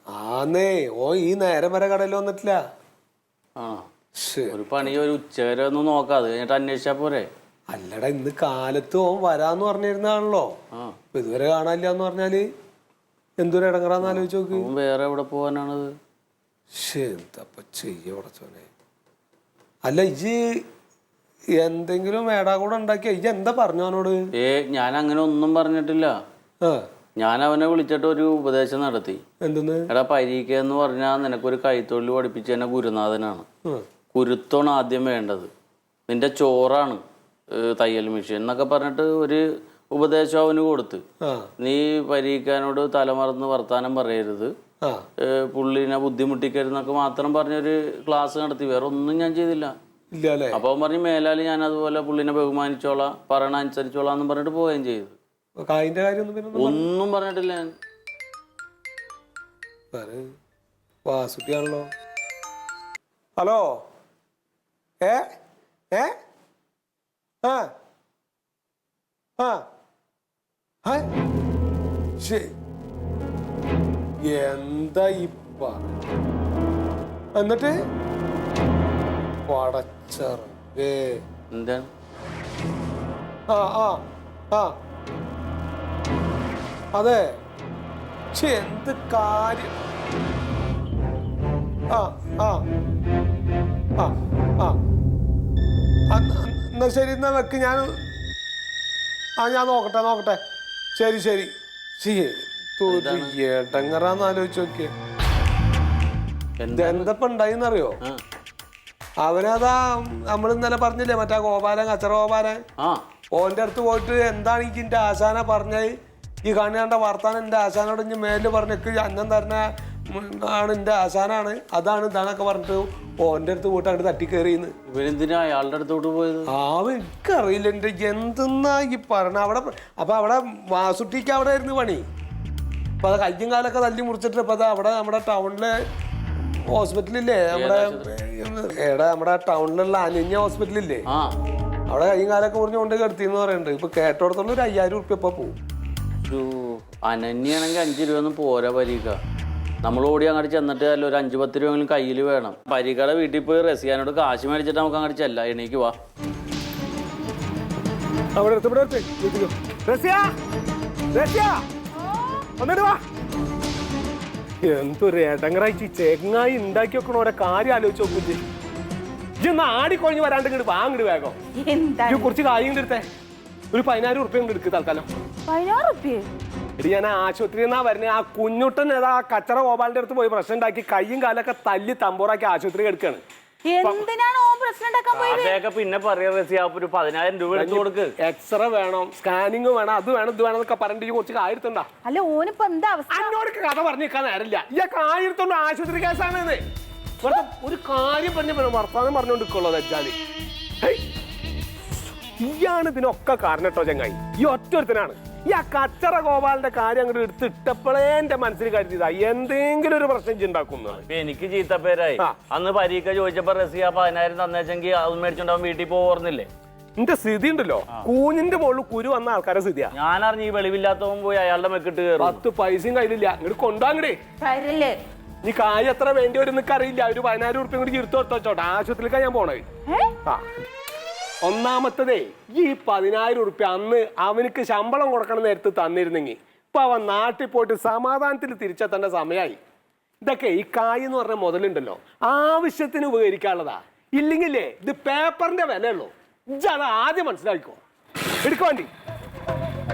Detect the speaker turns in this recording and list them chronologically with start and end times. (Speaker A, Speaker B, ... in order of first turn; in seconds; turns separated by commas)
Speaker A: 0.1-2.6, Speaker B: 3.6-3.9, Speaker A: 4.2-4.6, Speaker B: 4.5-7.3, Speaker A: 7.7-10.5, Speaker A: 11.1-12.4, Speaker A: 13.4-14.7, Speaker B: 14.0-15.9, Speaker A: 16.7-18.7, Speaker A: 19.9-20.4, Speaker A: 21.6-24.2, Speaker B: 24.3-26.1, Speaker B: 27.2-29.2, Speaker A: 29.4-29.9, Speaker B: 29.9-33.5, Speaker B: 34.1-35.5, Speaker B: 36.1-37.0, Speaker B: 37.5-41.0, Speaker A: 41.2-41.5, Speaker B: 41.6-44.5, Speaker B: 45.2-49.7, Speaker A: 50.1-50.6, Speaker B: 50.5-55.2, Speaker A: 55.6-56.9, Speaker B: 56.6-57.7, Speaker A: 59.9-60.3, Speaker A: 61.1-61.9, Speaker A: 63.4-63.7, Speaker A: 67.4-67.7, Speaker A: 69.4-69.6, Speaker A: 72.2-72.5, Speaker A: 74.2-75.8, Speaker A: 77.4-77.8, Speaker A: 79.5-81.2, Speaker B: 81.5-81.9, Speaker A: 83.5-84.0, Speaker A: 87.0-87.3, Speaker A: 88.3-89.7, Speaker A: 91.9-92.7, Speaker A: 94.0-94.8, Speaker A: 96.1-98.0, Speaker A: 99.4-100.4, Speaker A: 101.0-104.9, Speaker B: 102.9-103.3, Speaker B: 106.6-107.1, Speaker A: 106.7-108.0, Speaker A: 109.2-112.6, Speaker A: 113.3-115.9, Speaker A: 116.5-124.7, Speaker B: 124.9-126.5, Speaker A: 126.5-132.0, Speaker A: 133.0-135.7, Speaker A: 136.7-141.0, Speaker B: 137.5-138.1, Speaker B: 141.1-141.3, Speaker A: 141.9-145.6, Speaker B: 146.3-149.2, Speaker B: 149.8-155.9, Speaker A: 158.4-160.3, Speaker A: 161.1-161.6, Speaker C: 162.0-162.5, Speaker A: 162.6-163.0, Speaker A: 164.6-168.4, Speaker A: 169.4-171.4, Speaker C: 171.6-172.3, Speaker A: 172.1-173.1, Speaker A: 173.7-175.1, Speaker C: 175.5-176.3, Speaker A: 176.8-183.2, Speaker C: 183.7-185.6, Speaker B: 185.1-188.1, Speaker A: 187.5-191.9, Speaker C: 192.0-193.3, Speaker A: 193.1-196.6, Speaker A: 197.2-200.2, Speaker A: 202.4-211.0, Speaker B: 210.9-216.5, Speaker A: 217.0-219.9, Speaker B: 219.9-222.4, Speaker A: 222.2-224.2, Speaker C: 224.4-225.0, Speaker A: 225.4-229.7, Speaker C: 229.9-230.1, Speaker A: 231.4-239.6, Speaker A: 240.2-247.8, Speaker A: 248.4-248.9